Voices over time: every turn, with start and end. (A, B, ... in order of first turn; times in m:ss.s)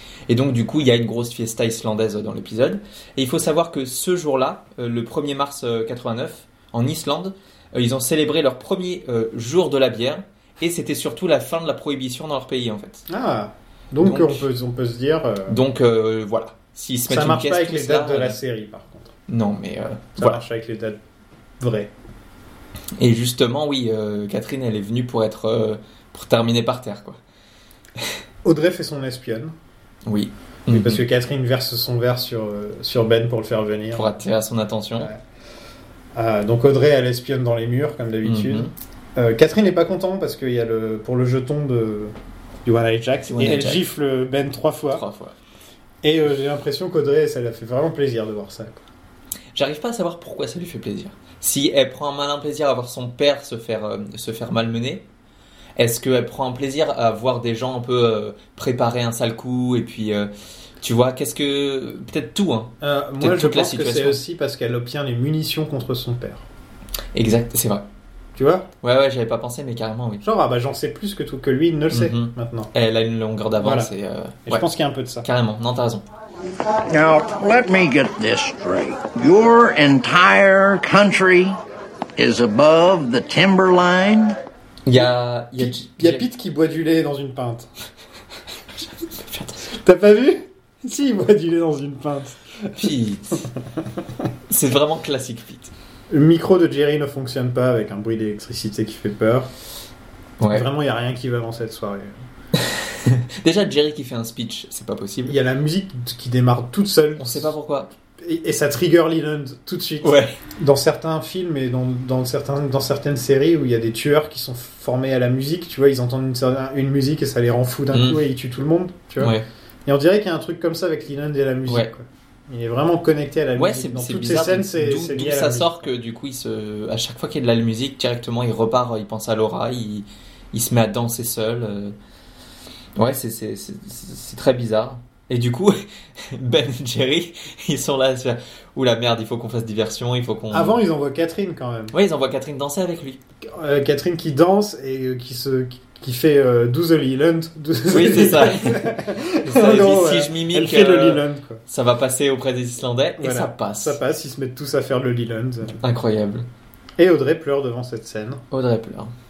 0:00.3-0:13.0 A
0:13.1-0:15.6 B
0:14.0-0:14.5 A
0:15.5-0:18.4 A
0:17.1-0:19.1 B
0:19.3-0:20.4 A
0:20.2-0:21.0 B
0:21.6-0:21.9 B
0:23.0-0:27.2 A
0:28.4-0:29.5 B
0:30.0-0:31.0 A
0:30.7-0:34.2 B
0:33.9-0:35.1 A
0:36.1-0:42.1 B
0:38.2-0:38.7 A
0:42.6-0:45.0 B
0:43.2-0:43.8 A
0:44.9-0:45.3 A
0:46.0-0:48.8 B
0:49.5-0:55.0 A
0:55.8-1:04.2 A
1:02.8-1:06.4 B
1:07.1-1:07.8 A
1:08.4-1:08.7 B
1:08.8-1:10.2 A
1:10.2-1:12.7 B
1:11.9-1:14.7 A
1:13.6-1:13.9 B
1:14.4-1:15.3 B
1:15.2-1:16.0 A
1:16.9-1:21.6 C
1:22.2-1:24.4 C
1:24.8-1:26.2 A
1:25.6-1:27.7 B
1:28.8-1:29.6 A
1:29.7-1:32.9 B
1:32.8-1:33.5 A
1:34.5-1:35.7 A
1:36.1-1:39.5 B
1:40.4-1:40.7 A
1:40.5-1:42.2 B
1:42.6-1:45.4 A
1:45.2-1:47.5 B
1:47.2-1:47.9 A
1:48.2-1:59.3 B
1:50.0-1:50.4 A
1:57.9-1:58.2 A
1:59.2-1:59.5 A
1:59.8-2:05.7 B
2:03.5-2:12.0 A
2:13.0-2:20.8 A
2:20.5-2:21.9 B
2:21.9-2:23.2 A
2:23.4-2:31.6 B
2:27.9-2:28.9 A
2:29.4-2:34.0 A
2:33.2-2:35.8 B
2:35.7-2:36.5 A
2:37.0-2:38.4 B
2:38.5-2:39.1 A